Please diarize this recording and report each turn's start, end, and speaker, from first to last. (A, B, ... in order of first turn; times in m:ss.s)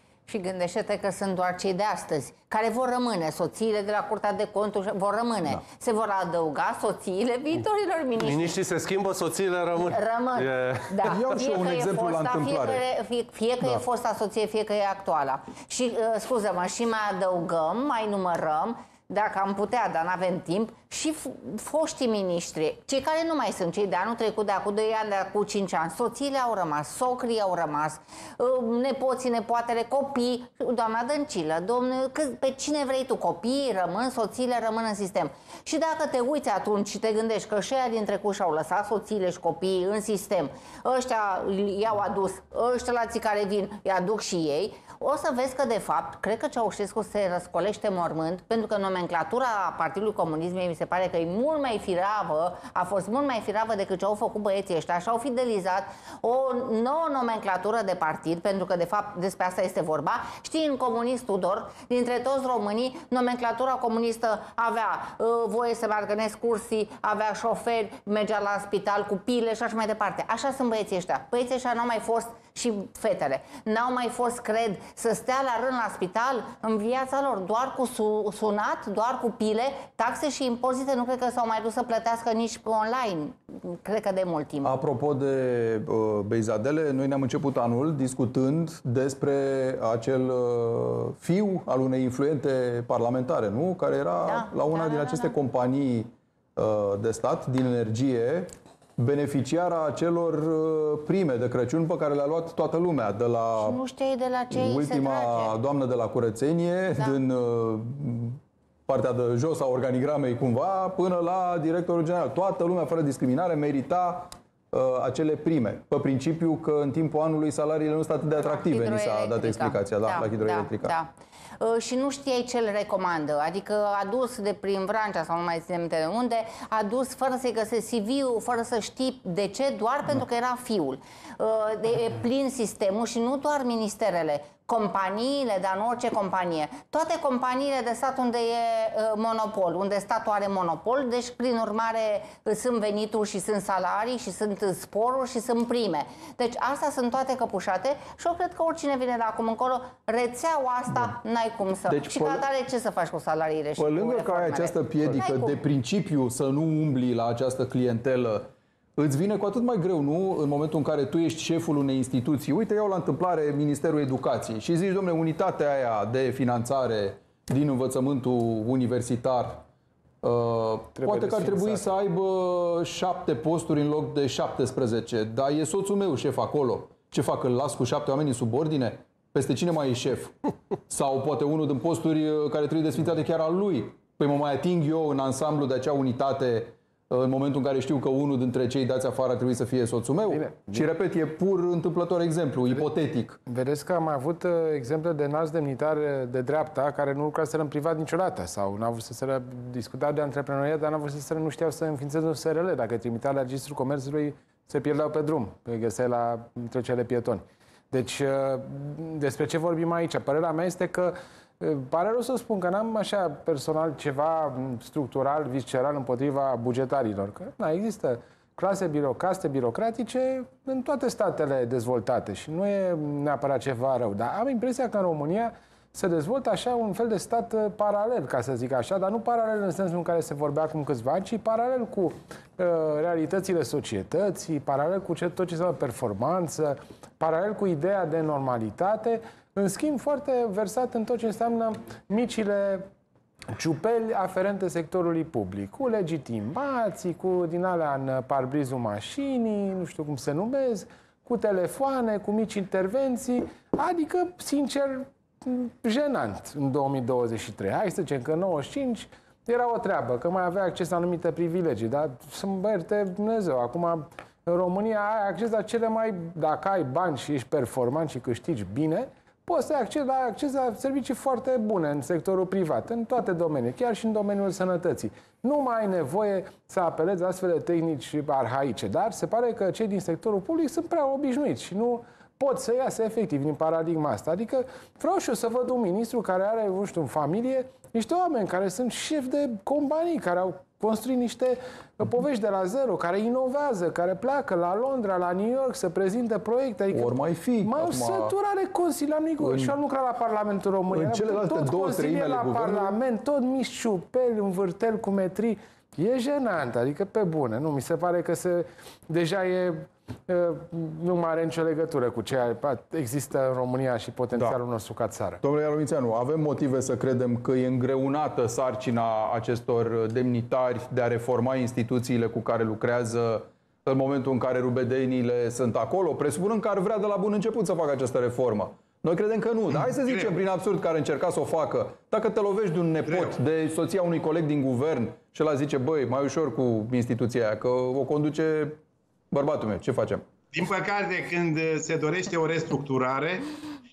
0:00.3-0:08.6 A
0:08.2-0:11.2 B
0:09.9-1:24.7 A
0:11.1-0:12.8 C
1:24.6-1:43.8 C
1:34.2-1:35.3 A
1:43.6-1:45.5 A
1:44.5-2:01.0 C
1:58.4-2:35.6 A
2:31.9-2:32.4 C
2:33.8-2:49.6 C
2:50.2-3:00.4 C
2:51.0-2:52.0 D
3:00.9-3:13.4 C
3:10.3-3:10.9 D
3:13.5-4:02.9 D
4:03.5-5:15.4 D
4:56.9-4:58.4 C
4:59.4-4:59.8 C
5:00.9-5:02.9 C
5:15.4-5:38.8 C
5:33.1-5:33.3 E
5:39.3-5:40.3 C
5:40.5-5:43.5 E